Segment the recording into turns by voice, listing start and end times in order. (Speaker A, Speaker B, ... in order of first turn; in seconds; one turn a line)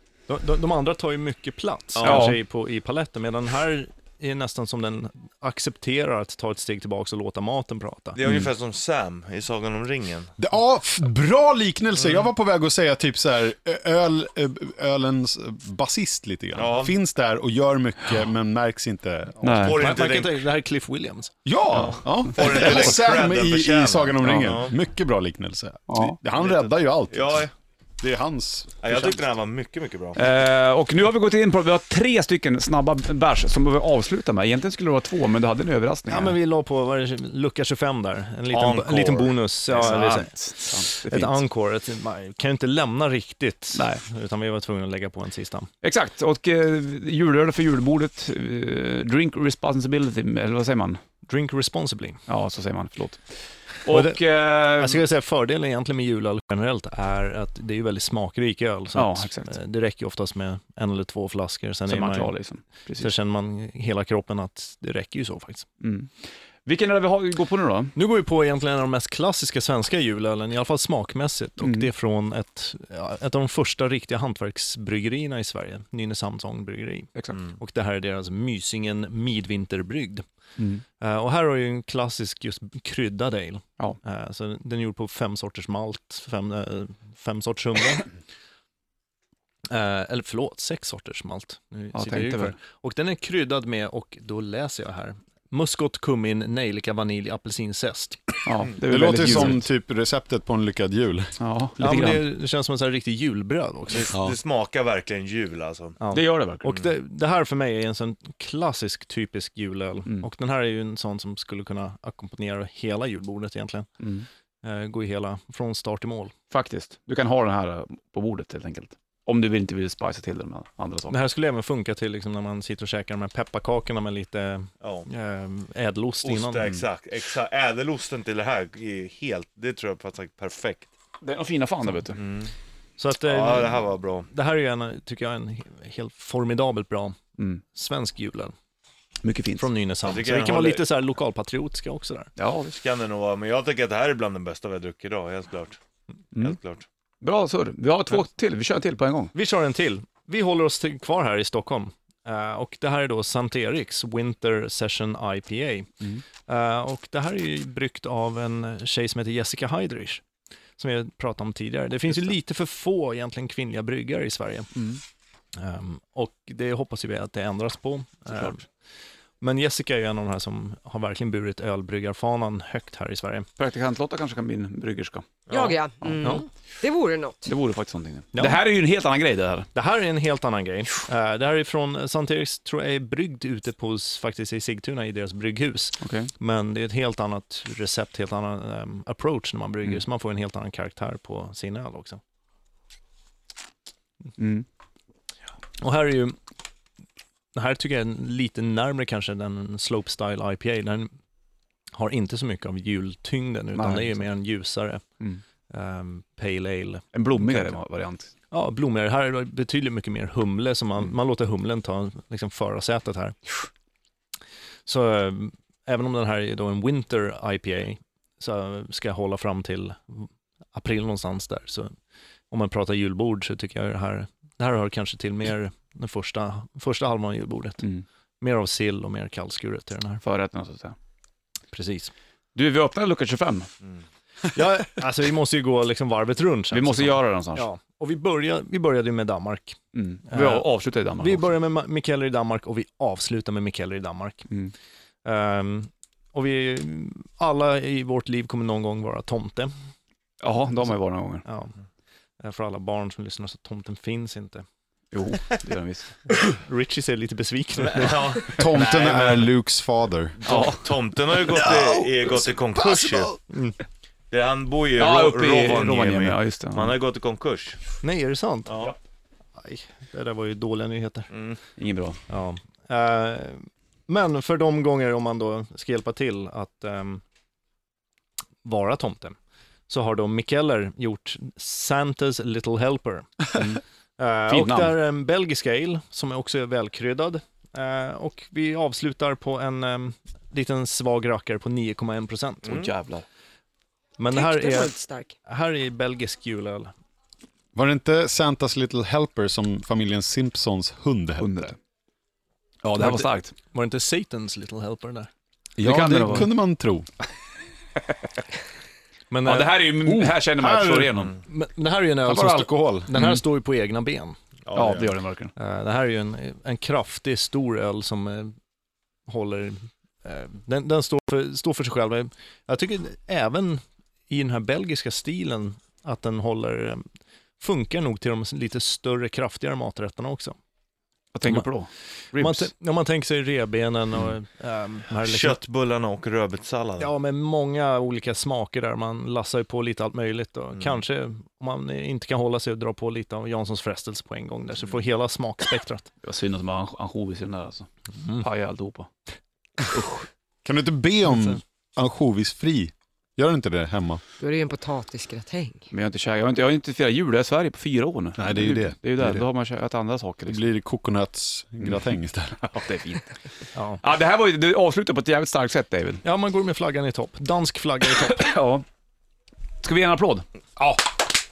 Speaker A: 0.3-8.2
Speaker B: 2.0-2.3
Speaker C: 2.0-2.4
Speaker B: 8.2-10.3
Speaker D: 10.4-19.8
Speaker B: 11.9-12.3
Speaker B: 16.6-17.0
Speaker C: 19.4-19.8
Speaker B: 19.6-20.3
Speaker A: 19.8-21.3
Speaker D: 21.4-27.5
Speaker B: 21.8-24.8
Speaker C: 25.9-26.2
Speaker B: 26.4-27.5
Speaker D: 28.0-29.1
Speaker B: 28.8-30.2
Speaker C: 30.2-36.4
Speaker A: 36.1-45.7
Speaker B: 38.5-40.0
Speaker C: 39.7-41.5
Speaker C: 43.7-44.0
Speaker C: 45.8-51.0
Speaker A: 51.3-52.2
Speaker C: 52.3-53.2
Speaker C: 53.8-55.0
Speaker A: 53.9-54.2
Speaker A: 54.8-62.3
Speaker C: 59.0-59.5
Speaker C: 61.9-63.1
Speaker A: 63.0-65.7
Speaker C: 65.8-66.1
Speaker C: 66.7-67.9
Speaker A: 68.0-80.2
Speaker C: 71.6-71.9
Speaker C: 77.2-77.4
Speaker A: 81.0-88.1
Speaker A: 89.7-98.2
Speaker C: 91.9-92.5
Speaker C: 98.5-99.7
Speaker D: 98.8-101.3
Speaker C: 101.4-102.2
Speaker A: 101.8-104.1
Speaker B: 103.9-106.0
Speaker A: 106.0-113.9
Speaker C: 106.1-106.7
Speaker C: 114.0-114.3
Speaker A: 114.6-116.3
Speaker C: 116.5-121.2
Speaker A: 121.1-126.7
Speaker B: 124.8-125.1
Speaker B: 126.2-130.9
Speaker C: 131.2-132.2
Speaker B: 132.1-132.5
Speaker A: 133.0-137.2
Speaker B: 133.2-134.3
Speaker A: 137.7-138.5
Speaker C: 139.2-139.7
Speaker A: 139.6-142.3
Speaker B: 140.0-140.9
Speaker C: 142.4-142.8
Speaker B: 142.7-145.8
Speaker B: 146.4-146.8
Speaker C: 147.2-149.3
Speaker A: 149.3-155.9
Speaker A: 156.5-160.2
Speaker A: 160.8-164.7
Speaker C: 164.8-165.0
Speaker A: 165.6-168.7
Speaker C: 168.3-168.6
Speaker A: 169.4-173.5
Speaker C: 173.6-175.4
Speaker B: 175.5-175.8
Speaker E: 175.5-177.5
Speaker C: 176.0-176.3
Speaker C: 177.5-179.7
Speaker A: 178.3-178.6
Speaker A: 179.8-192.2
Speaker C: 186.0-186.3
Speaker C: 194.4-194.7
Speaker A: 195.8-196.4
Speaker A: 197.6-201.1
Speaker A: 201.9-205.0
Speaker C: 203.8-204.2
Speaker A: 205.7-207.8
Speaker C: 207.1-208.3
Speaker A: 208.5-213.6
Speaker A: 214.9-221.9
Speaker A: 222.5-227.9
Speaker A: 228.4-230.2
Speaker C: 230.2-231.0
Speaker A: 231.7-232.1
Speaker C: 232.6-233.7
Speaker A: 234.5-239.8
Speaker C: 236.7-237.7
Speaker C: 239.9-241.6
Speaker A: 240.3-244.5
Speaker A: 245.2-249.7
Speaker C: 250.4-251.4
Speaker A: 251.4-251.8
Speaker A: 252.4-254.6
Speaker C: 255.1-256.2
Speaker A: 256.4-258.2
Speaker B: 257.9-259.5
Speaker D: 258.6-260.4
Speaker B: 260.4-263.3
Speaker C: 260.5-260.8
Speaker D: 262.9-263.2
Speaker A: 263.5-263.8
Speaker B: 264.3-267.8
Speaker C: 265.0-267.0
Speaker A: 268.0-268.8
Speaker B: 268.7-268.9
Speaker A: 269.6-271.3
Speaker B: 271.3-271.6
Speaker C: 271.8-272.2
Speaker A: 272.3-277.2
Speaker A: 278.6-279.4
Speaker A: 279.9-283.4
Speaker C: 283.5-283.8
Speaker A: 284.2-292.7
Speaker C: 284.5-285.0
Speaker B: 292.6-292.9
Speaker C: 292.6-293.2
Speaker A: 294.2-296.9
Speaker E: 294.3-295.4
Speaker D: 297.8-301.7
Speaker C: 301.4-301.8
Speaker C: 302.8-303.5
Speaker A: 303.0-305.3
Speaker D: 305.8-307.1
Speaker C: 305.8-306.5
Speaker A: 309.3-309.9
Speaker C: 309.4-311.4
Speaker D: 310.1-310.6
Speaker A: 310.6-314.4
Speaker C: 313.1-313.4
Speaker B: 314.7-315.1
Speaker C: 314.7-315.5
Speaker A: 315.6-318.5
Speaker A: 319.3-327.0
Speaker A: 327.6-330.6
Speaker C: 331.3-332.7
Speaker A: 332.3-335.6
Speaker B: 335.2-337.1
Speaker A: 337.0-346.1
Speaker C: 346.2-349.1
Speaker C: 349.9-350.2
Speaker D: 350.6-354.2
Speaker E: 354.4-355.9
Speaker C: 355.9-360.7
Speaker D: 358.4-359.4
Speaker D: 360.5-362.7
Speaker C: 362.6-363.4
Speaker A: 363.8-364.0
Speaker C: 364.0-366.2
Speaker A: 366.2-368.5
Speaker C: 368.2-368.9
Speaker C: 369.8-371.0